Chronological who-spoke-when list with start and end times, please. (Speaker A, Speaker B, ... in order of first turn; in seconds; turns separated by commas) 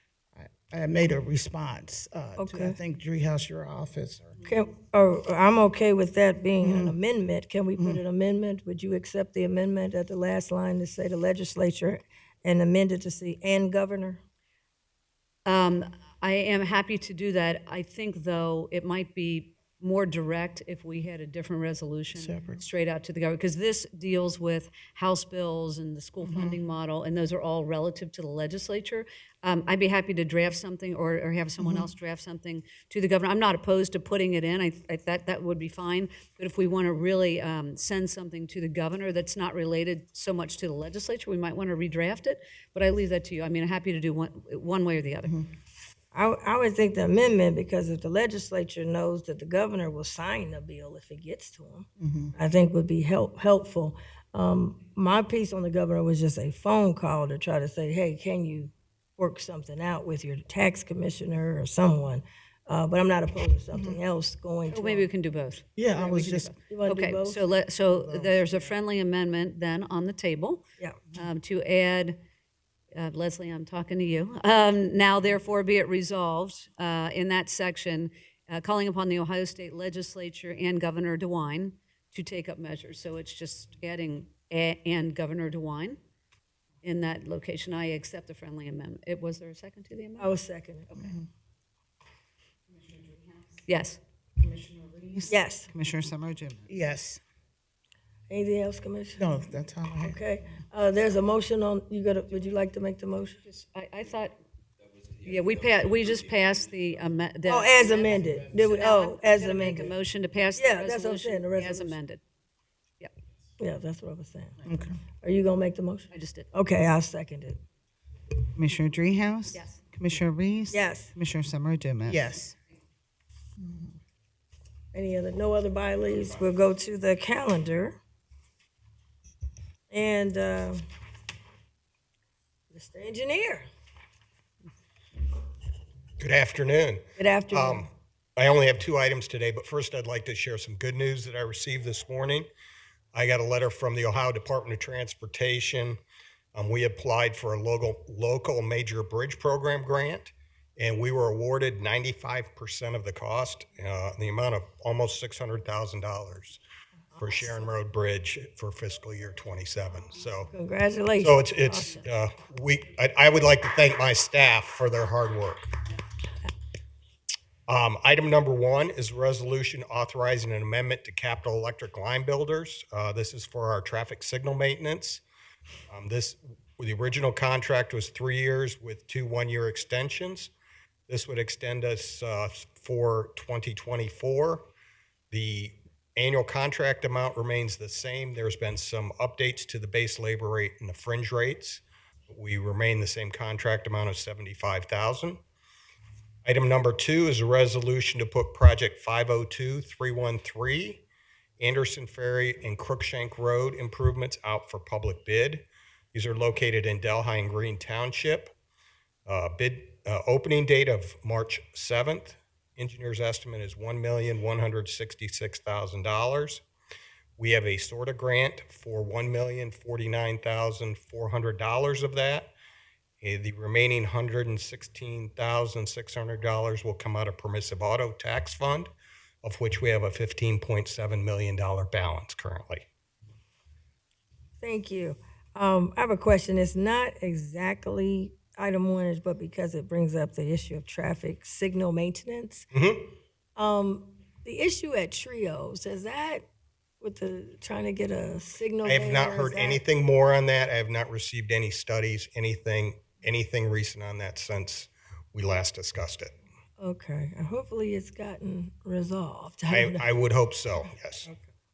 Speaker A: 0.3-4.4, Speaker B: 2.4-2.8, Speaker B: 4.5-14.2, Speaker A: 6.6-7.0, Speaker C: 15.5-45.4, Speaker A: 22.1-22.6, Speaker A: 26.2-26.6, Speaker A: 31.6-31.9, Speaker B: 46.1-65.1, Speaker A: 52.0-52.3, Speaker A: 63.7-64.0, Speaker C: 64.7-70.6, Speaker A: 65.8-66.5, Speaker B: 66.7-67.5, Speaker A: 67.9-68.6, Speaker C: 71.1-72.2, Speaker C: 73.0-86.0, Speaker C: 86.8-90.3, Speaker B: 90.2-90.9, Speaker A: 91.0-91.2, Speaker D: 92.7-93.6, Speaker C: 93.7-94.0, Speaker D: 94.4-96.7, Speaker B: 95.3-95.7, Speaker A: 96.7-97.2, Speaker B: 98.3-99.2, Speaker A: 99.2-100.2, Speaker B: 100.0-103.4, Speaker C: 103.4-104.4, Speaker C: 105.2-112.2, Speaker B: 107.5-110.0, Speaker B: 110.5-112.0, Speaker B: 113.6-114.6, Speaker A: 114.7-115.0, Speaker B: 115.2-117.6, Speaker C: 116.1-116.5, Speaker D: 118.5-122.2, Speaker C: 119.5-119.8, Speaker B: 120.7-121.1, Speaker A: 122.1-122.5, Speaker A: 123.6-123.9, Speaker B: 124.9-128.0, Speaker B: 129.9-130.8, Speaker B: 132.7-133.7, Speaker E: 136.2-142.5, Speaker B: 137.2-137.9, Speaker E: 143.1-146.0, Speaker E: 146.6-156.6, Speaker E: 157.2-160.5, Speaker B: 160.5-162.0, Speaker E: 161.2-165.7, Speaker E: 167.7-175.2, Speaker E: 175.9-180.5, Speaker E: 181.1-184.7, Speaker E: 185.3-195.4, Speaker E: 196.4-201.1, Speaker E: 201.6-208.5, Speaker E: 209.3-216.6, Speaker E: 217.4-222.5, Speaker E: 223.2-228.9, Speaker E: 229.4-232.9, Speaker B: 234.6-242.7, Speaker E: 242.7-243.1, Speaker B: 243.6-246.4, Speaker B: 247.0-249.8, Speaker E: 248.8-256.4, Speaker B: 256.8-260.1, Speaker E: 259.7-261.3